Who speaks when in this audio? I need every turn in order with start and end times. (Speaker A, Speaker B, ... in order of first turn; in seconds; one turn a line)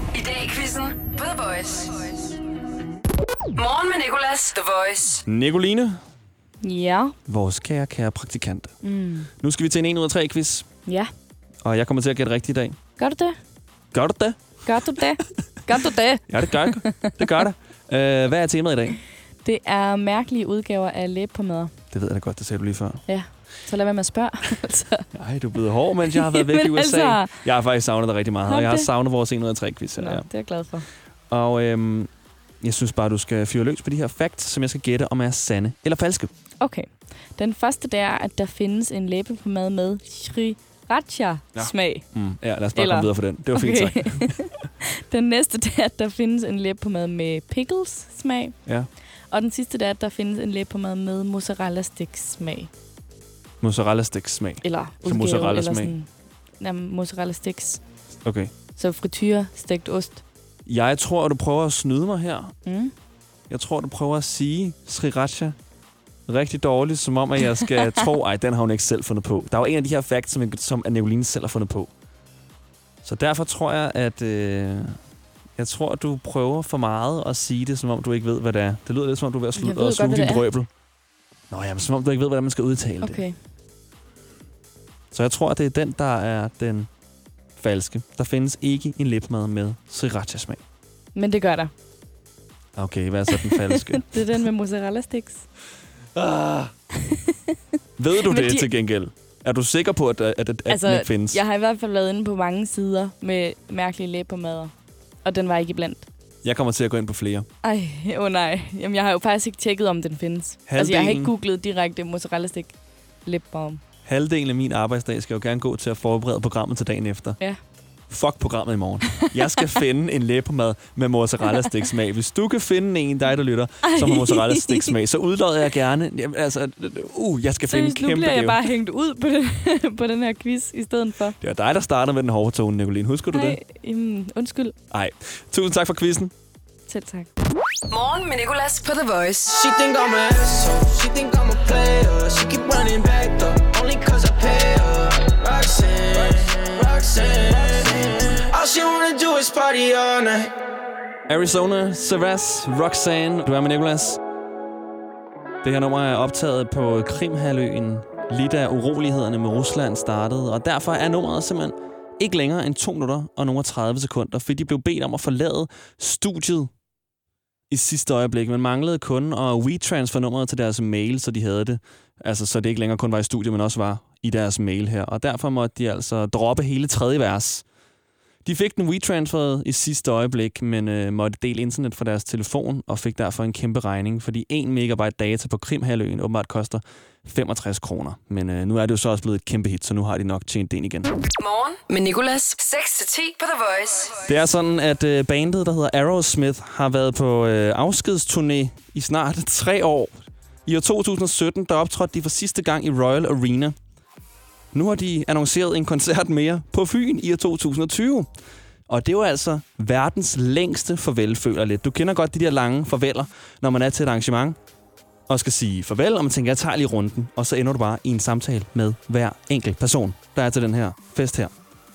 Speaker A: 0.1-2.4
Speaker A: 3.6-5.2
Speaker B: 5.3-6.0
Speaker C: 6.6-7.1
Speaker B: 7.3-8.8
Speaker C: 8.8-9.3
Speaker B: 9.4-10.7
Speaker C: 10.9-11.1
Speaker B: 11.7-12.8
Speaker C: 13.0-13.4
Speaker B: 13.9-14.8
Speaker C: 14.7-17.2
Speaker B: 16.3-19.0
Speaker C: 19.4-21.7
Speaker B: 21.9-23.0
Speaker C: 23.1-25.1
Speaker B: 25.1-30.3
Speaker C: 26.2-27.4
Speaker C: 28.5-28.9
Speaker C: 30.0-30.9
Speaker B: 31.3-32.1
Speaker B: 32.6-36.3
Speaker C: 36.6-42.1
Speaker B: 41.5-44.5
Speaker C: 42.8-44.5
Speaker C: 45.1-48.6
Speaker C: 49.3-52.7
Speaker B: 53.6-55.9
Speaker C: 54.6-57.8
Speaker B: 58.2-58.5
Speaker C: 58.8-60.2
Speaker B: 60.7-62.6
Speaker C: 62.7-62.9
Speaker B: 63.5-65.5
Speaker B: 66.3-71.9
Speaker B: 73.0-75.0
Speaker B: 75.6-80.7
Speaker C: 79.6-80.4
Speaker B: 81.5-83.2
Speaker C: 83.0-83.4
Speaker B: 85.1-86.9
Speaker B: 87.6-90.6
Speaker C: 91.2-91.7
Speaker B: 92.8-94.2
Speaker C: 93.4-95.5
Speaker B: 96.2-96.7
Speaker B: 98.0-101.4
Speaker C: 98.2-98.7
Speaker C: 100.7-104.7
Speaker C: 105.2-106.1
Speaker B: 106.4-107.5
Speaker C: 107.6-112.7
Speaker B: 110.7-111.3
Speaker C: 113.2-113.8
Speaker B: 114.0-117.4
Speaker B: 118.1-128.6
Speaker C: 123.9-124.9
Speaker C: 127.7-131.4
Speaker B: 131.4-133.6
Speaker C: 133.3-134.8
Speaker B: 134.9-136.3
Speaker C: 136.9-137.3
Speaker A: 137.9-139.6
Speaker D: 139.5-150.5
Speaker B: 151.3-154.2
Speaker B: 155.6-166.7
Speaker B: 167.7-177.7
Speaker B: 178.4-191.1
Speaker A: 191.4-194.3
Speaker B: 194.3-203.8
Speaker B: 204.7-208.3
Speaker B: 208.9-214.6
Speaker B: 215.3-221.5